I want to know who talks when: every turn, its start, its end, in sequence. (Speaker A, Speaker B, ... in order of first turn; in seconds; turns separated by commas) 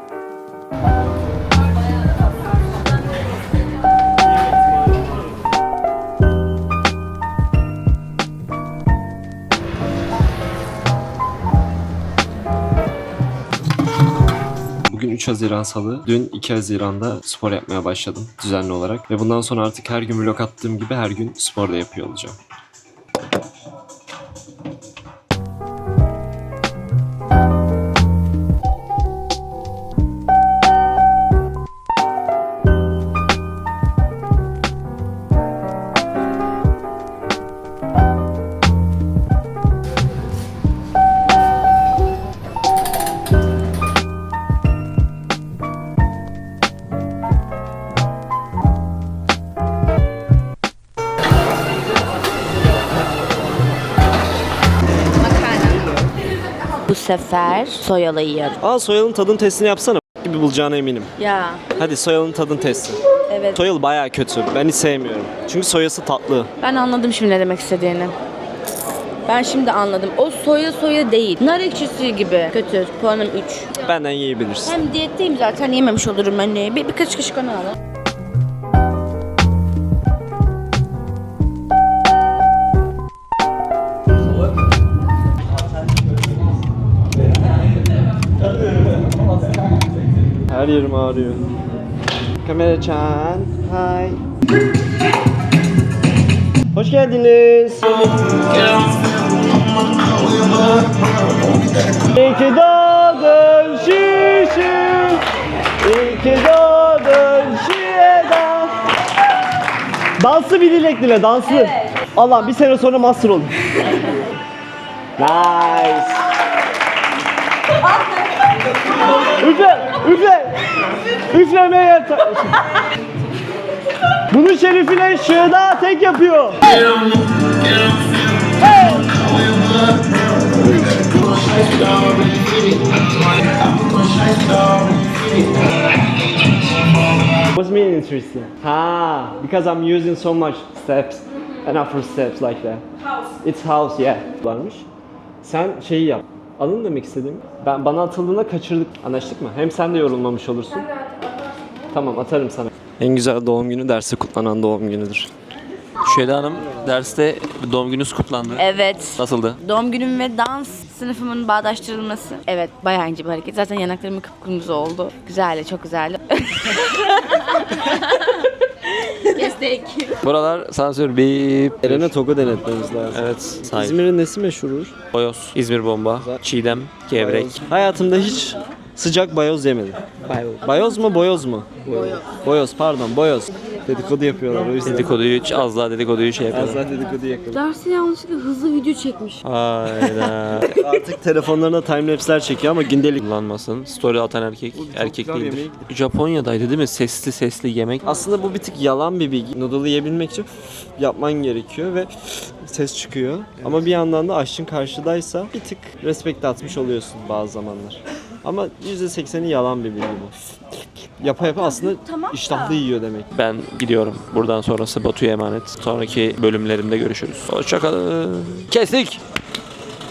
Speaker A: 14.9-22.4, Speaker B: 55.2-56.0, Speaker B: 56.9-58.6, Speaker A: 58.6-61.1, Speaker B: 61.2-61.6, Speaker A: 61.7-63.0, Speaker B: 63.3-63.6, Speaker A: 63.5-66.5, Speaker B: 66.6-68.1, Speaker B: 69.2-73.7, Speaker A: 73.8-74.8, Speaker B: 74.6-77.8, Speaker A: 90.5-91.5, Speaker A: 92.4-94.2, Speaker A: 96.7-98.2, Speaker A: 100.1-105.2, Speaker A: 105.8-108.8, Speaker A: 110.2-113.5, Speaker A: 115.2-116.3, Speaker A: 119.1-122.6, Speaker A: 124.3-127.1, Speaker A: 128.4-130.3, Speaker A: 131.0-132.7, Speaker A: 137.5-142.8, Speaker A: 143.4-144.9, Speaker A: 145.4-150.9, Speaker A: 151.9-155.3, Speaker C: 156.0-159.6, Speaker B: 158.6-170.2, Speaker C: 170.2-172.1, Speaker A: 171.8-174.9, Speaker C: 173.1-174.0, Speaker C: 175.1-177.6, Speaker A: 177.1-180.0, Speaker C: 180.3-180.7, Speaker A: 180.6-185.1, Speaker C: 181.9-182.2, Speaker B: 182.0-182.3, Speaker C: 184.8-186.8, Speaker A: 186.5-187.6, Speaker B: 187.5-189.4, Speaker C: 189.4-190.8, Speaker A: 190.0-193.2, Speaker C: 193.2-198.0, Speaker A: 194.7-195.9, Speaker A: 198.1-200.5, Speaker A: 201.0-210.3, Speaker A: 211.2-213.3, Speaker B: 211.5-212.8, Speaker C: 213.3-219.2